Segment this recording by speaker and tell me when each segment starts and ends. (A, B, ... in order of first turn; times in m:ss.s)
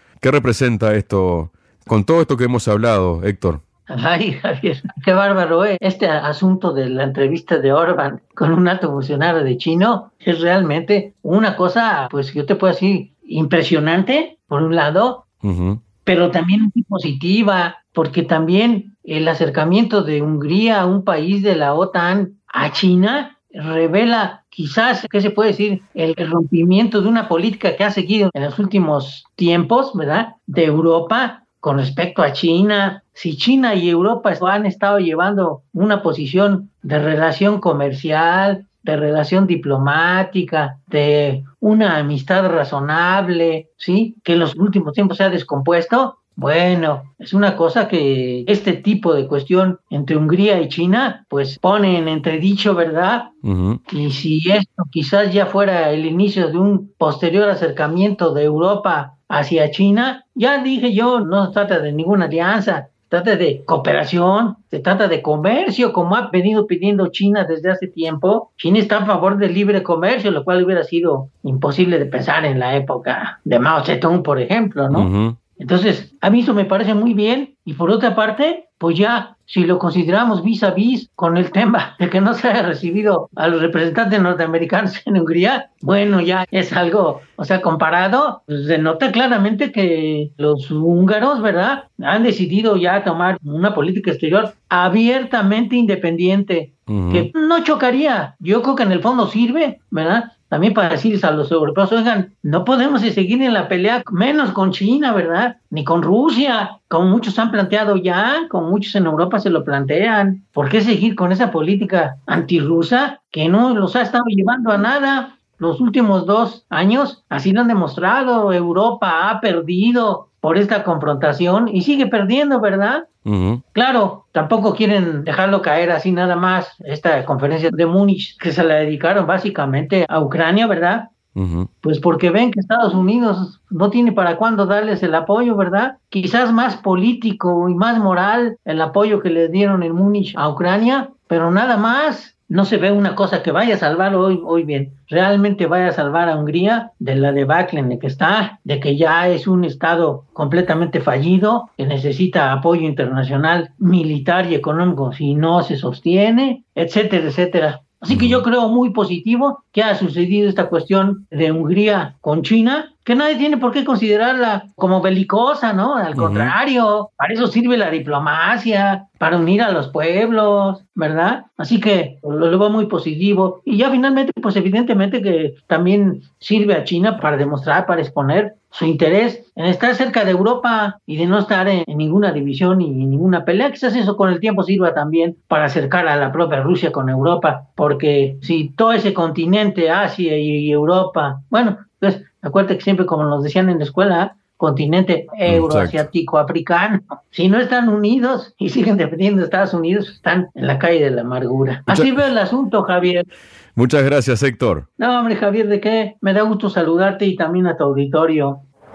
0:00.2-0:03.6 A
0:03.9-0:15.2 B
0:15.4-0:15.8 A
0:16.0-0:53.3 B
0:53.4-0:53.8 A
0:53.9-2:03.1 B
1:14.9-1:15.4 A
1:36.9-1:37.3 A
2:03.2-2:03.6 A
2:03.7-2:11.1 B
2:11.3-2:11.7 A
2:11.8-3:23.3 B
2:38.1-2:38.4 A
2:46.1-2:46.6 A
3:15.5-3:16.0 A
3:21.9-3:22.2 A
3:23.8-3:24.8 A
3:25.0-3:28.6 B